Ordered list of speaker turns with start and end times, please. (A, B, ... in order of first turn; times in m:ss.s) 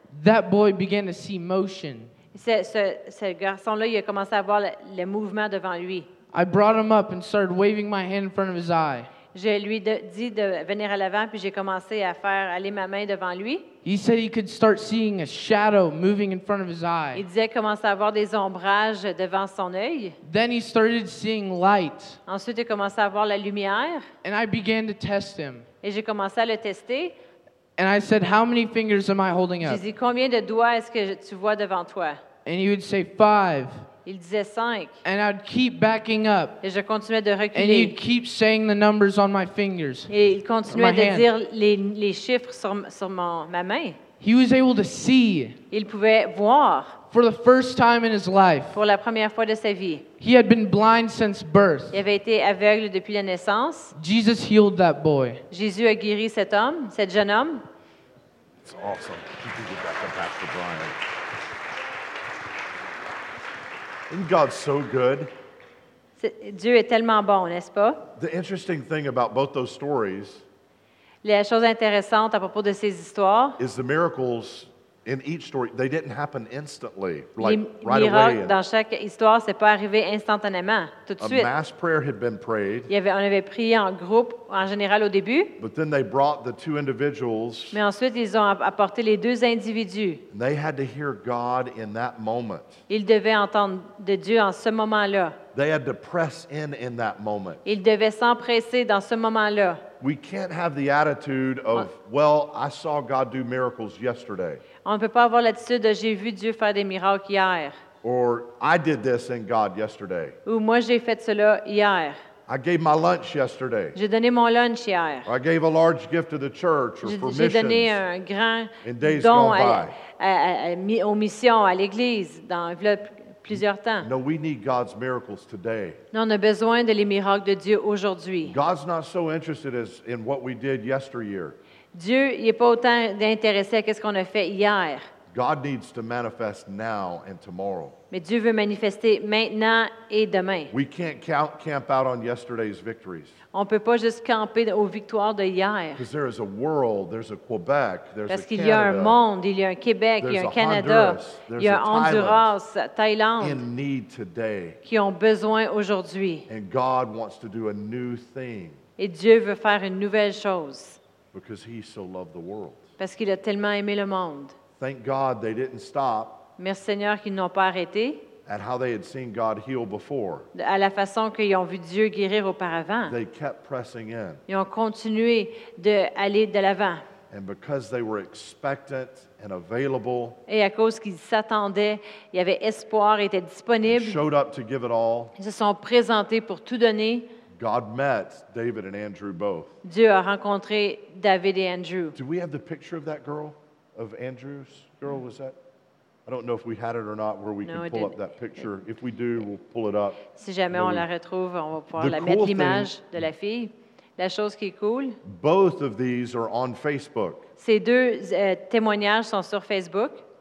0:00.1-0:02.1 A
0:02.3-0:06.1 B
0:06.3-0:09.1 A
0:09.3-0:13.7 B
0:13.8-0:17.2 A
0:17.1-0:20.2 B
0:20.2-0:22.2 A
0:22.3-0:24.0 B
0:24.2-0:25.6 A
0:25.8-0:27.1 B
0:27.8-0:29.8 A
0:29.6-0:32.2 B
0:32.4-0:33.9 A
0:34.0-0:35.0 B
0:35.0-0:36.6 A
0:36.6-0:38.0 B
0:37.5-0:40.1 A
0:40.1-0:44.0 B
0:40.7-0:41.3 A
0:44.2-0:45.6 A
0:45.7-0:47.0 B
0:47.1-0:48.8 A
0:48.7-0:50.1 B
0:50.2-0:52.0 A
0:51.9-0:53.9 B
0:53.9-0:55.4 A
0:55.5-0:57.6 B
0:58.6-1:01.0 C
1:04.1-1:05.3 C
1:06.2-1:08.0 B
1:08.2-1:10.4 C
1:11.2-1:13.6 B
1:13.6-1:18.6 C
1:17.4-1:21.5 B
1:21.2-1:22.9 C
1:22.9-1:25.6 B
1:25.6-1:27.8 C
1:27.7-1:30.2 B
1:30.3-1:32.8 C
1:32.9-1:35.4 B
1:35.5-1:37.6 C
1:37.6-1:39.8 B
1:40.0-1:44.6 C
1:44.8-1:47.7 B
1:48.0-1:50.4 C
1:50.4-1:52.2 B
1:52.5-1:54.0 C
1:53.9-1:55.3 B
1:55.2-1:58.0 C
1:57.0-2:04.1 B
1:58.8-2:00.0 C
2:03.5-2:06.0 C
2:06.1-2:08.6 B
2:08.4-2:11.6 C
2:11.9-2:15.0 B
2:15.3-2:18.0 C
2:18.1-2:20.7 B
2:20.7-2:23.4 C
2:23.5-2:26.0 B
2:26.0-2:29.2 C
2:28.3-2:33.6 B
2:30.2-2:32.5 C
2:33.4-2:34.8 C
2:34.8-2:36.5 B
2:36.5-2:38.8 C
2:39.0-2:41.0 B
2:41.3-2:42.9 C
2:43.0-2:44.5 B
2:44.8-2:46.5 C
2:46.6-2:48.2 B
2:48.4-2:50.5 C
2:50.5-2:53.1 B
2:53.0-2:54.4 C
2:54.5-2:57.0 B
2:57.3-3:00.4 C
3:00.5-3:04.2 B
3:03.9-3:05.3 C
3:05.4-3:07.3 B
3:07.5-3:09.7 C
3:09.8-3:12.2 B
3:12.1-3:15.6 C
3:16.2-3:21.1 C
3:17.6-3:18.2 B
3:20.3-3:25.2 B
3:22.0-3:22.9 C
3:25.2-3:27.4 C
3:27.6-3:30.2 B